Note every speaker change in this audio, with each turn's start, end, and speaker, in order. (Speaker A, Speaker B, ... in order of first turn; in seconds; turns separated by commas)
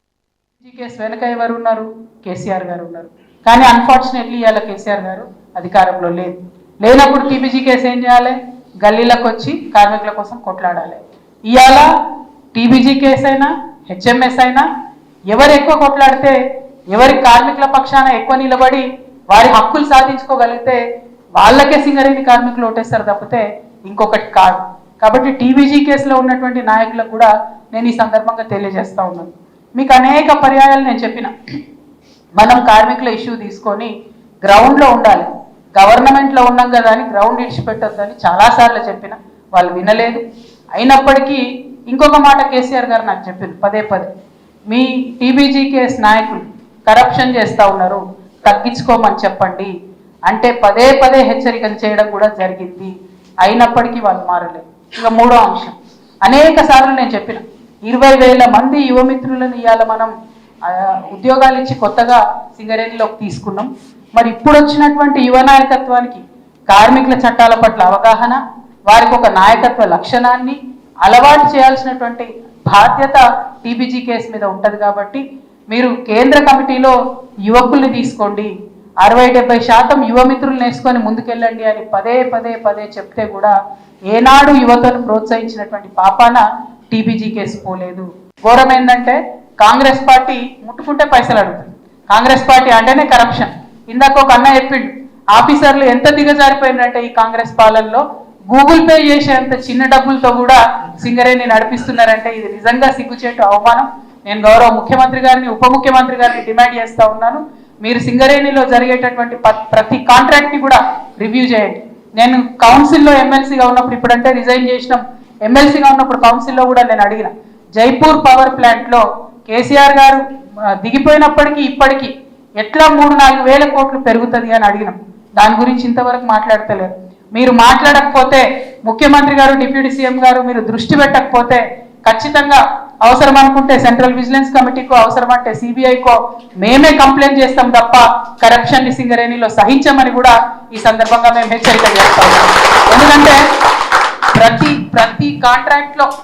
Speaker A: 0.6-11.9, Speaker A: 12.5-14.6, Speaker A: 15.3-16.3, Speaker A: 16.9-20.8, Speaker A: 21.4-31.3, Speaker A: 32.4-33.9, Speaker A: 34.4-40.2, Speaker A: 40.8-44.1, Speaker A: 44.7-49.7, Speaker A: 50.3-52.9, Speaker A: 53.4-60.1, Speaker A: 60.6-76.9, Speaker A: 77.4-78.5, Speaker A: 79.0-83.5, Speaker A: 84.1-120.2, Speaker A: 120.7-143.4, Speaker A: 144.3-146.1